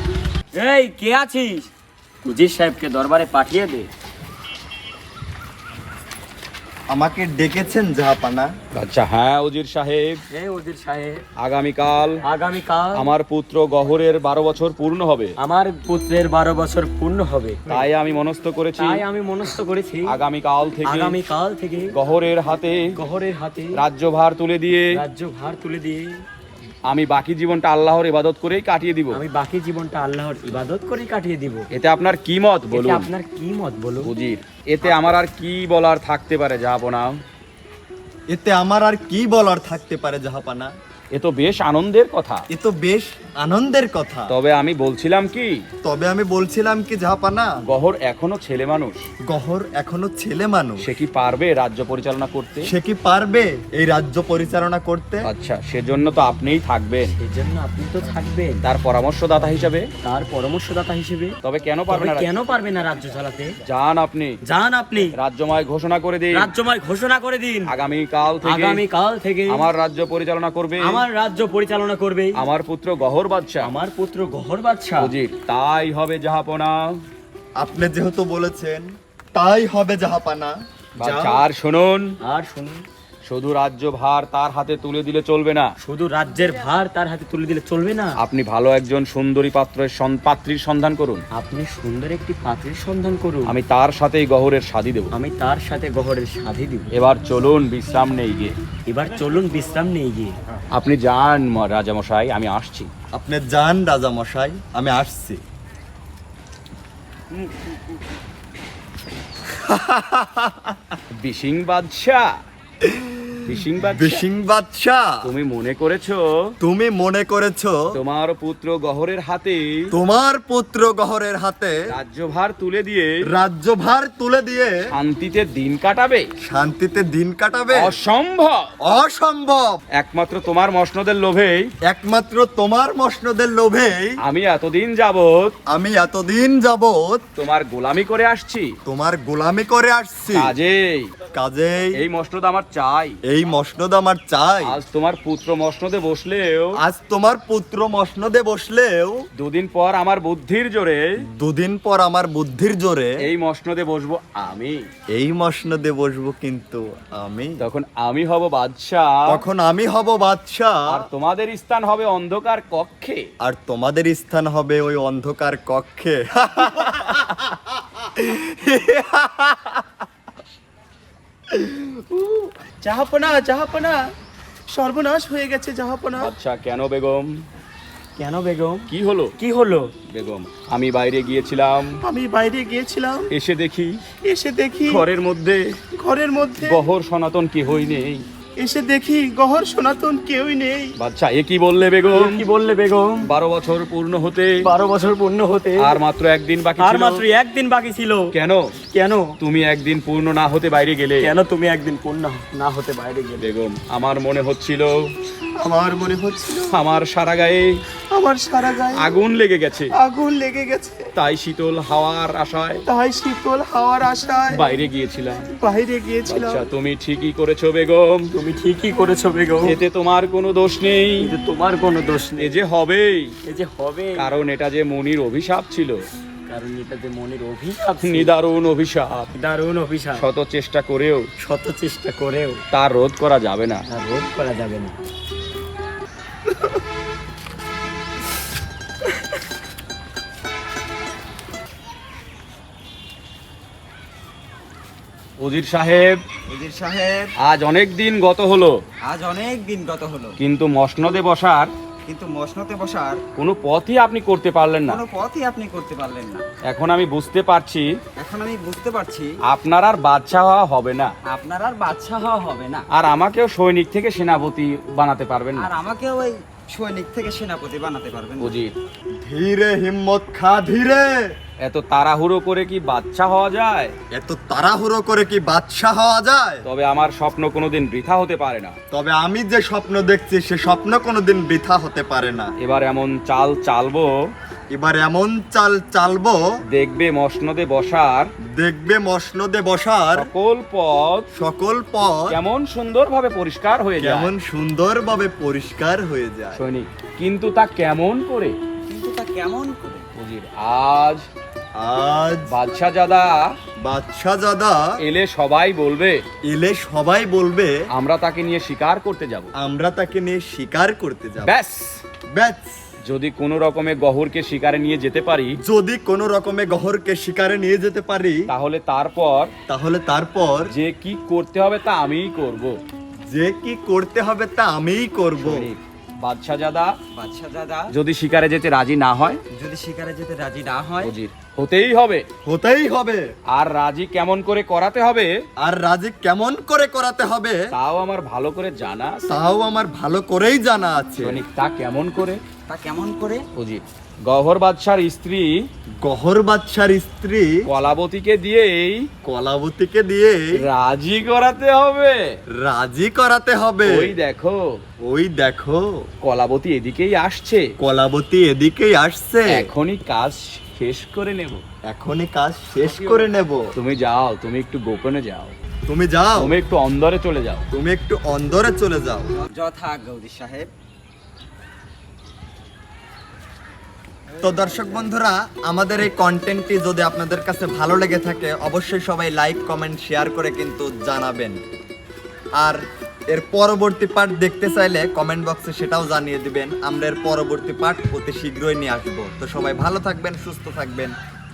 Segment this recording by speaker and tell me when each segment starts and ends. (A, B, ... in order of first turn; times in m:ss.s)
0:00.5-0:01.7 A
0:02.2-0:03.9 A
0:06.9-0:08.5 B
0:08.7-0:10.2 C
0:10.3-0:11.2 A
0:11.4-0:12.2 C
0:12.2-0:13.0 A
0:13.0-0:15.4 C
0:15.4-0:17.9 A
0:17.7-0:19.0 C
0:18.8-0:20.2 A
0:20.1-0:21.2 C
0:20.9-0:21.9 A
0:21.9-0:22.9 C
0:23.0-0:23.8 A
0:23.8-0:24.9 C
0:25.0-0:26.2 A
0:26.9-0:29.2 C
0:29.1-0:31.7 A
0:31.7-0:33.1 C
0:32.7-0:34.1 A
0:34.0-0:37.2 C
0:38.3-0:40.7 B
0:41.1-0:42.4 C
0:42.5-0:44.4 B
0:44.3-0:45.6 C
0:45.8-0:47.5 B
0:47.6-0:49.0 C
0:49.3-0:50.9 B
0:50.8-0:52.7 C
0:52.6-0:55.3 B
0:55.3-0:57.2 C
0:57.0-0:58.6 A
0:58.6-0:59.9 C
1:00.0-1:01.4 A
1:01.4-1:02.3 C
1:01.9-1:03.6 A
1:03.6-1:04.4 C
1:04.4-1:05.2 A
1:05.1-1:06.5 C
1:06.3-1:07.7 A
1:07.7-1:08.8 C
1:08.4-1:09.7 A
1:09.5-1:11.0 C
1:10.8-1:12.4 A
1:12.4-1:13.7 C
1:13.6-1:15.1 A
1:15.0-1:17.0 C
1:17.6-1:21.4 B
1:21.0-1:22.1 C
1:22.2-1:22.8 A
1:23.3-1:25.7 C
1:25.8-1:28.2 A
1:28.2-1:31.2 C
1:31.3-1:33.6 A
1:33.5-1:35.1 C
1:35.1-1:36.9 A
1:36.9-1:38.6 C
1:38.9-1:40.4 A
1:40.7-1:42.9 C
1:43.1-1:45.4 B
1:49.5-1:51.0 B
1:51.2-1:52.3 C
1:52.8-1:55.1 B
1:53.4-1:54.2 C
1:55.2-1:56.5 C
1:56.6-1:57.8 B
1:57.9-1:59.9 C
1:59.9-2:01.8 B
2:01.9-2:03.2 C
2:03.3-2:04.8 B
2:04.9-2:06.3 C
2:06.4-2:07.9 B
2:07.7-2:08.7 C
2:08.8-2:09.8 B
2:10.0-2:11.7 C
2:11.9-2:14.2 B
2:14.2-2:15.6 C
2:15.7-2:17.2 B
2:17.4-2:18.8 C
2:18.9-2:20.6 B
2:20.3-2:21.1 C
2:21.3-2:22.0 B
2:22.0-2:23.2 C
2:23.3-2:24.8 B
2:24.6-2:26.8 C
2:26.8-2:29.2 B
2:29.4-2:31.1 C
2:31.2-2:33.2 B
2:33.2-2:34.9 C
2:35.1-2:37.7 B
2:37.6-2:39.4 C
2:39.3-2:41.0 B
2:40.9-2:43.3 C
2:43.4-2:49.9 B
2:51.6-2:52.5 B
2:52.8-2:54.0 A
2:54.7-2:56.3 A
2:56.2-2:57.4 C
2:58.2-2:59.9 A
2:58.9-2:59.3 C
3:00.1-3:02.0 C
3:02.0-3:03.3 A
3:03.3-3:04.0 C
3:04.3-3:05.0 A
3:04.9-3:05.8 C
3:06.0-3:06.8 A
3:06.6-3:08.2 C
3:08.6-3:10.9 A
3:11.0-3:12.4 C
3:12.1-3:13.3 A
3:13.2-3:14.6 C
3:14.6-3:16.0 A
3:15.8-3:17.2 C
3:16.8-3:18.4 A
3:18.3-3:18.7 C
3:18.9-3:19.4 A
3:19.4-3:21.3 C
3:21.2-3:23.5 A
3:23.4-3:25.1 C
3:26.0-3:26.6 D
3:26.7-3:27.8 C
3:28.2-3:28.8 A
3:28.6-3:29.0 D
3:28.9-3:30.0 C
3:30.4-3:31.0 D
3:31.2-3:32.8 C
3:32.9-3:33.6 A
3:33.8-3:34.1 D
3:34.5-3:35.5 C
3:35.8-3:36.5 D
3:36.3-3:38.3 C
3:38.3-3:39.8 A
3:39.6-3:41.3 C
3:41.2-3:42.5 A
3:42.4-3:43.4 C
3:43.4-3:44.3 A
3:44.2-3:46.1 C
3:46.5-3:48.3 A
3:48.0-3:49.3 C
3:49.3-3:50.3 A
3:50.2-3:51.3 C
3:51.4-3:52.6 A
3:52.7-3:53.8 C
3:53.9-3:55.0 A
4:05.4-4:06.2 C
4:06.5-4:07.3 E
4:07.4-4:08.8 C
4:09.0-4:10.4 E
4:10.4-4:11.7 C
4:12.1-4:13.2 E
4:13.4-4:15.0 C
4:14.9-4:16.5 E
4:16.6-4:17.9 C
4:18.2-4:19.3 E
4:19.4-4:21.1 C
4:21.3-4:22.9 E
4:22.9-4:25.7 C
4:25.6-4:28.6 E
4:28.4-4:28.7 C
4:29.2-4:31.3 B
4:31.6-4:34.0 C
4:34.1-4:36.6 B
4:36.6-4:38.8 C
4:38.9-4:42.5 B
4:42.6-4:44.1 C
4:44.7-4:46.4 B
4:46.7-4:48.3 C
4:48.6-4:50.3 B
4:50.1-4:51.3 C
4:51.4-4:52.4 B
4:52.3-4:54.3 C
4:54.0-4:56.6 B
4:56.5-4:58.6 C
4:58.9-5:00.1 E
5:00.2-5:01.3 C
5:01.8-5:02.5 B
5:02.5-5:03.5 C
5:03.8-5:04.8 B
5:05.0-5:06.2 C
5:06.4-5:07.7 B
5:07.9-5:09.5 C
5:09.6-5:11.6 B
5:11.4-5:12.0 C
5:12.3-5:12.8 B
5:13.1-5:15.6 C
5:15.6-5:18.4 B
5:18.5-5:19.5 C
5:19.7-5:20.7 B
5:20.7-5:22.8 C
5:23.3-5:25.7 B
5:25.4-5:26.9 C
5:27.1-5:27.9 E
5:27.9-5:29.4 C
5:29.5-5:31.1 E
5:31.0-5:32.3 C
5:32.4-5:33.3 B
5:33.5-5:35.4 C
5:35.6-5:37.6 B
5:37.7-5:39.4 C
5:39.3-5:41.4 B
5:41.2-5:42.4 C
5:42.7-5:43.5 E
5:43.6-5:45.6 C
5:46.0-5:47.6 B
5:47.7-5:49.1 C
5:49.2-5:50.4 B
5:50.6-5:52.4 C
5:52.6-5:54.2 B
5:53.8-5:54.8 C
5:55.0-5:56.0 B
5:56.2-5:57.7 C
5:57.8-5:59.7 B
5:59.5-6:01.6 C
6:01.9-6:03.6 B
6:03.8-6:05.6 C
6:05.9-6:06.6 B
6:06.4-6:07.7 C
6:07.7-6:09.3 B
6:09.4-6:10.7 E
6:14.4-6:15.1 E
6:14.4-6:21.6 B
6:22.6-6:31.1 B